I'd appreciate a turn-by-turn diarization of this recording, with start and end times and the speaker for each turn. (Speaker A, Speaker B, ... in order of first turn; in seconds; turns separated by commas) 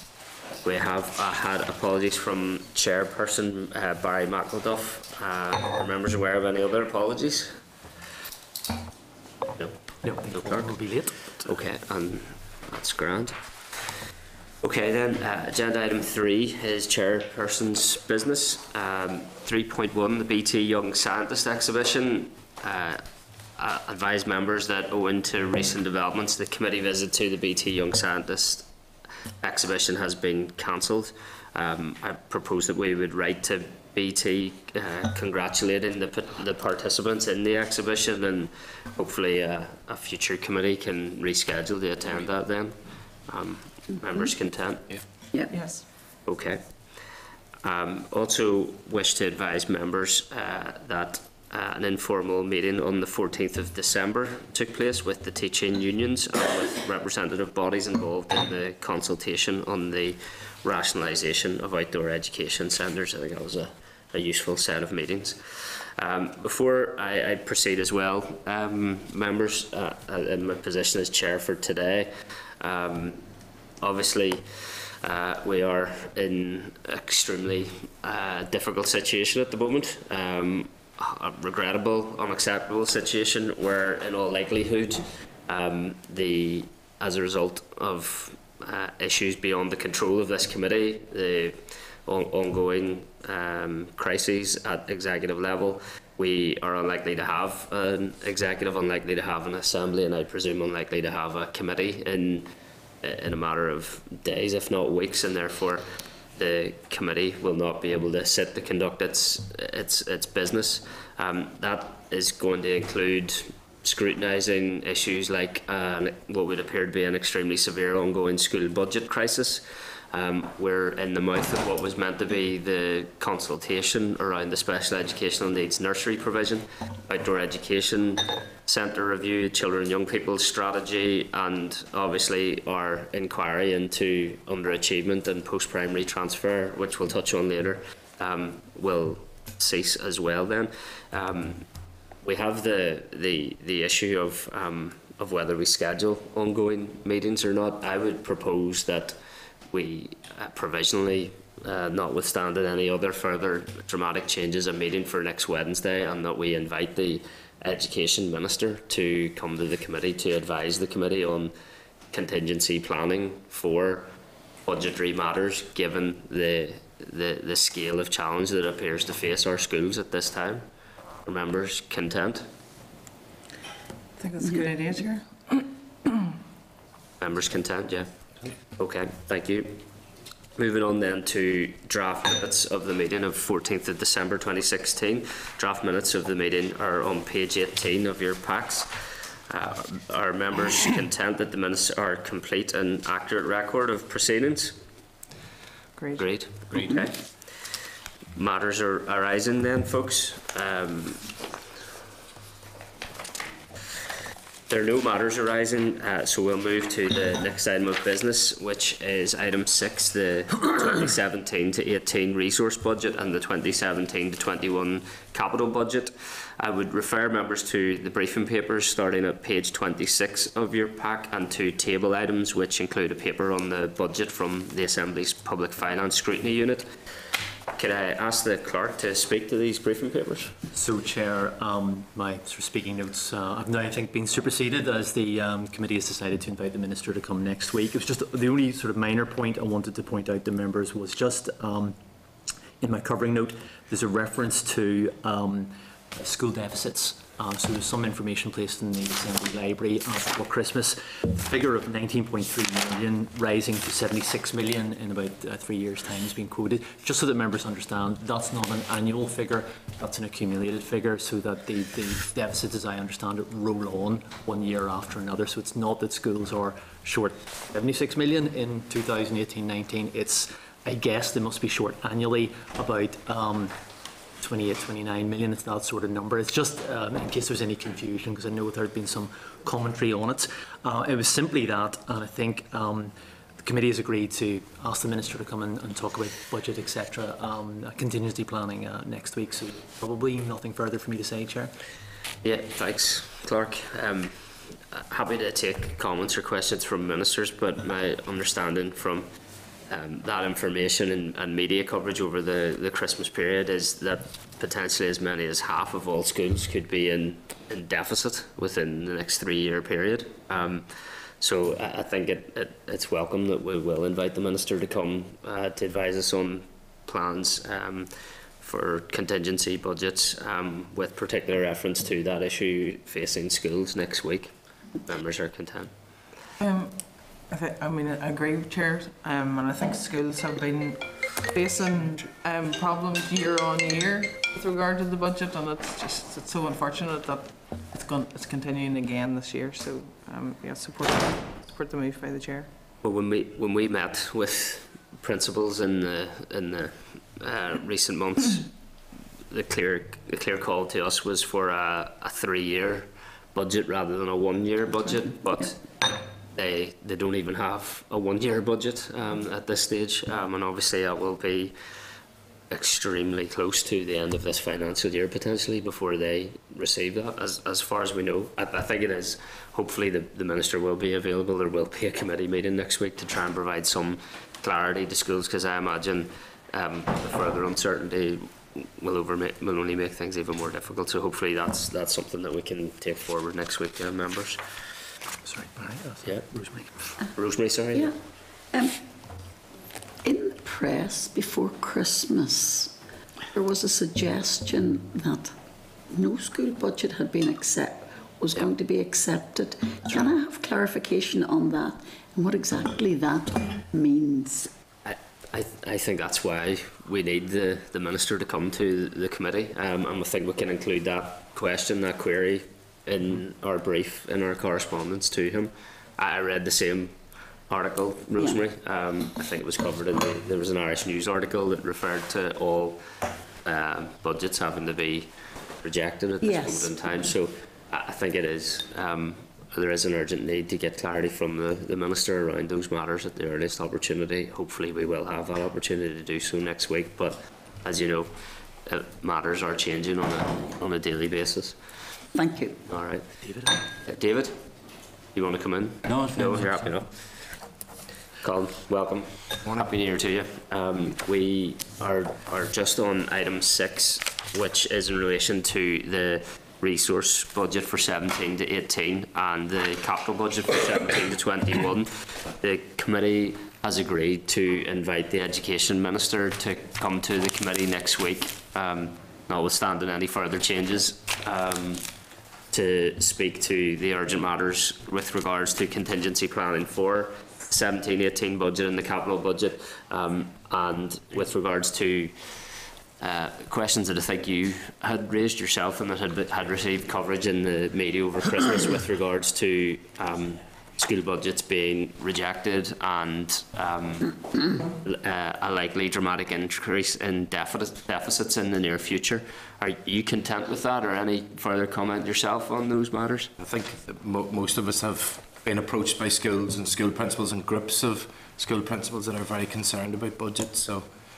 Speaker A: 0.6-7.6, Speaker A: 9.6-10.7, Speaker B: 10.0-11.4, Speaker A: 11.4-13.4, Speaker A: 14.6-23.0, Speaker A: 23.6-28.7, Speaker A: 29.4-45.0, Speaker C: 45.5-45.9, Speaker A: 46.2-47.0, Speaker A: 47.6-73.2, Speaker A: 73.8-102.5, Speaker A: 103.0-141.7, Speaker A: 142.2-149.2, Speaker A: 149.7-161.5, Speaker A: 162.1-164.1, Speaker A: 164.7-170.7, Speaker A: 171.2-172.5, Speaker C: 174.2-175.7, Speaker A: 177.2-178.1, Speaker A: 178.8-179.8, Speaker A: 180.6-194.8, Speaker C: 196.0-196.3, Speaker A: 196.2-197.8, Speaker A: 198.4-201.3, Speaker A: 204.7-226.9, Speaker A: 227.8-230.5, Speaker B: 230.7-242.0, Speaker B: 242.8-273.8, Speaker B: 274.4-291.7, Speaker A: 292.4-299.3, Speaker A: 299.9-325.9, Speaker C: 326.6-342.7, Speaker A: 343.0-348.7, Speaker A: 349.5-361.8, Speaker A: 362.7-384.6, Speaker B: 385.4-387.1, Speaker A: 387.4-388.1, Speaker D: 388.7-389.0, Speaker D: 390.2-392.9, Speaker D: 393.5-395.6, Speaker D: 396.1-404.7, Speaker A: 405.1-423.0, Speaker A: 423.6-441.8, Speaker D: 426.4-427.0, Speaker D: 442.3-442.8, Speaker A: 442.9-444.6, Speaker B: 443.4-443.7, Speaker A: 445.3-447.5, Speaker A: 448.4-472.1, Speaker A: 472.7-503.5, Speaker E: 503.6-511.1